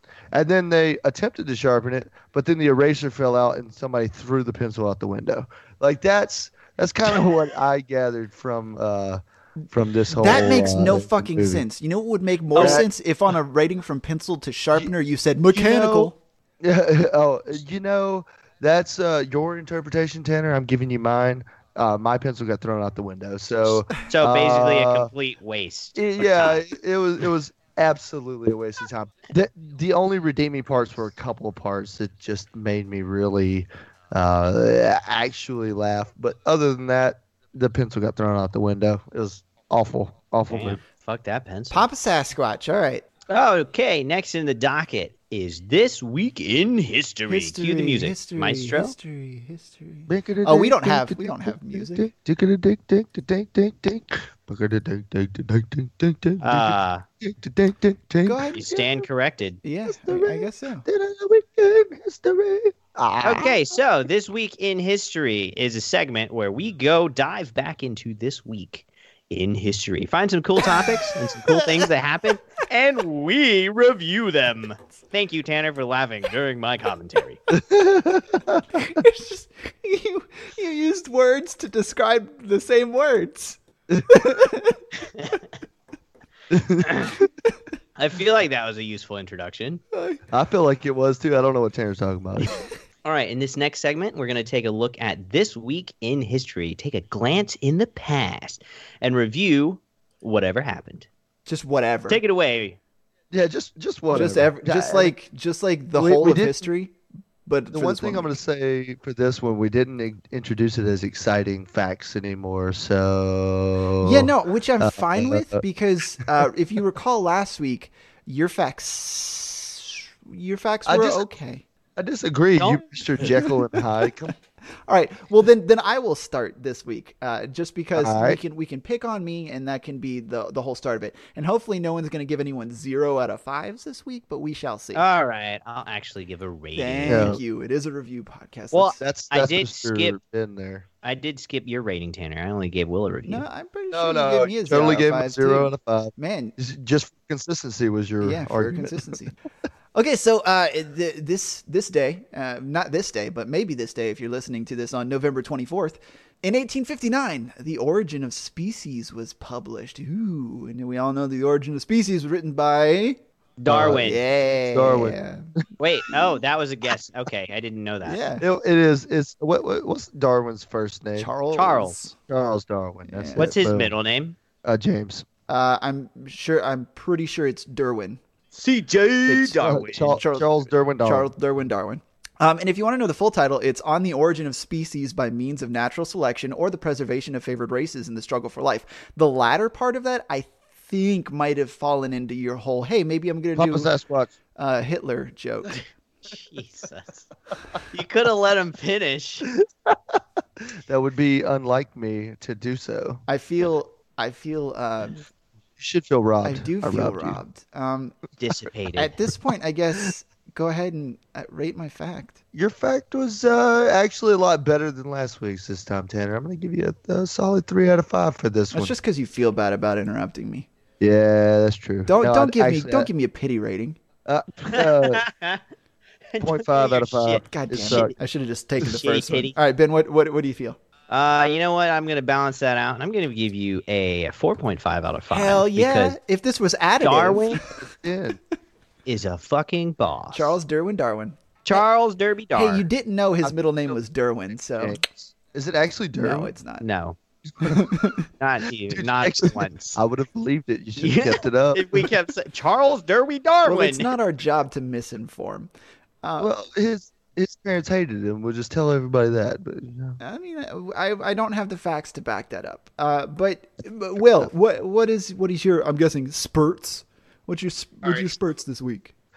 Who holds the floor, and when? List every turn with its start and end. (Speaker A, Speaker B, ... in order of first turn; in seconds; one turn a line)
Speaker A: 0.3-11.6
Speaker B: 10.1-16.1
Speaker C: 12.5-12.8
Speaker A: 12.6-12.9
Speaker A: 15.5-25.1
Speaker C: 24.1-26.6
Speaker A: 25.9-40.8
Speaker C: 40.5-41.9
Speaker B: 41.7-43.0
Speaker C: 43.3-48.9
Speaker B: 47.3-52.1
Speaker A: 50.1-59.0
Speaker C: 56.4-57.0
Speaker B: 58.2-58.7
Speaker C: 58.5-59.6
Speaker B: 59.6-60.8
Speaker A: 59.9-63.8
Speaker C: 63.2-77.4
Speaker B: 70.6-71.9
Speaker A: 77.5-79.0
Speaker B: 78.7-84.8
Speaker A: 83.9-84.3
Speaker A: 86.5-87.0
Speaker C: 86.8-87.2
Speaker C: 88.0-89.8
Speaker B: 89.9-90.2
Speaker A: 90.3-92.6
Speaker C: 93.0-101.1
Speaker B: 101.5-102.2
Speaker C: 102.1-102.8
Speaker A: 103.3-105.1
Speaker B: 104.1-108.3
Speaker A: 106.0-106.7
Speaker A: 107.7-115.6
Speaker B: 114.0-121.6
Speaker A: 120.8-121.2
Speaker A: 122.0-124.3
Speaker C: 122.6-122.8
Speaker B: 123.2-123.8
Speaker B: 124.9-135.0
Speaker A: 128.0-128.4
Speaker C: 134.9-137.4
Speaker B: 136.8-139.0
Speaker A: 137.1-137.4
Speaker C: 138.7-140.2
Speaker A: 139.0-140.8
Speaker C: 141.0-143.4
Speaker B: 143.2-146.5
Speaker A: 143.9-149.1
Speaker B: 148.2-149.3
Speaker B: 149.9-163.2
Speaker C: 163.6-164.2
Speaker A: 163.7-164.2
Speaker B: 164.0-165.5
Speaker A: 164.7-165.2
Speaker C: 165.8-168.2
Speaker B: 168.0-168.4
Speaker A: 168.4-171.3
Speaker B: 171.2-172.1
Speaker C: 171.5-171.9
Speaker A: 172.3-173.9
Speaker B: 173.1-173.5
Speaker C: 173.3-174.4
Speaker A: 174.6-175.2
Speaker B: 175.5-178.2
Speaker C: 178.5-180.2
Speaker B: 179.2-193.9
Speaker A: 179.5-181.3
Speaker A: 193.6-194.3
Speaker B: 194.6-195.8
Speaker C: 196.3-197.3
Speaker C: 197.8-199.5
Speaker A: 199.5-203.2
Speaker B: 203.3-205.2
Speaker A: 205.8-207.4
Speaker B: 206.4-208.2
Speaker C: 208.4-209.1
Speaker B: 208.9-212.4
Speaker A: 212.5-218.9
Speaker B: 218.7-220.7
Speaker A: 221.0-223.1
Speaker B: 222.1-224.0
Speaker A: 224.2-225.2
Speaker C: 224.7-225.6
Speaker C: 226.3-228.1
Speaker A: 226.4-228.1
Speaker B: 227.4-230.8
Speaker C: 228.8-229.5
Speaker C: 231.1-236.2
Speaker B: 235.3-237.8
Speaker C: 237.0-237.6
Speaker A: 237.7-238.4
Speaker C: 239.1-240.6
Speaker B: 240.3-241.8
Speaker C: 241.6-242.9
Speaker B: 242.5-245.0
Speaker A: 243.4-243.9
Speaker A: 244.8-246.5
Speaker B: 246.2-246.8
Speaker C: 246.8-247.2
Speaker B: 247.6-248.2
Speaker A: 247.6-248.0
Speaker C: 248.4-250.0
Speaker A: 248.9-252.1
Speaker C: 251.0-254.1
Speaker B: 253.7-255.7
Speaker B: 256.2-256.5
Speaker A: 256.4-260.2
Speaker B: 260.2-269.1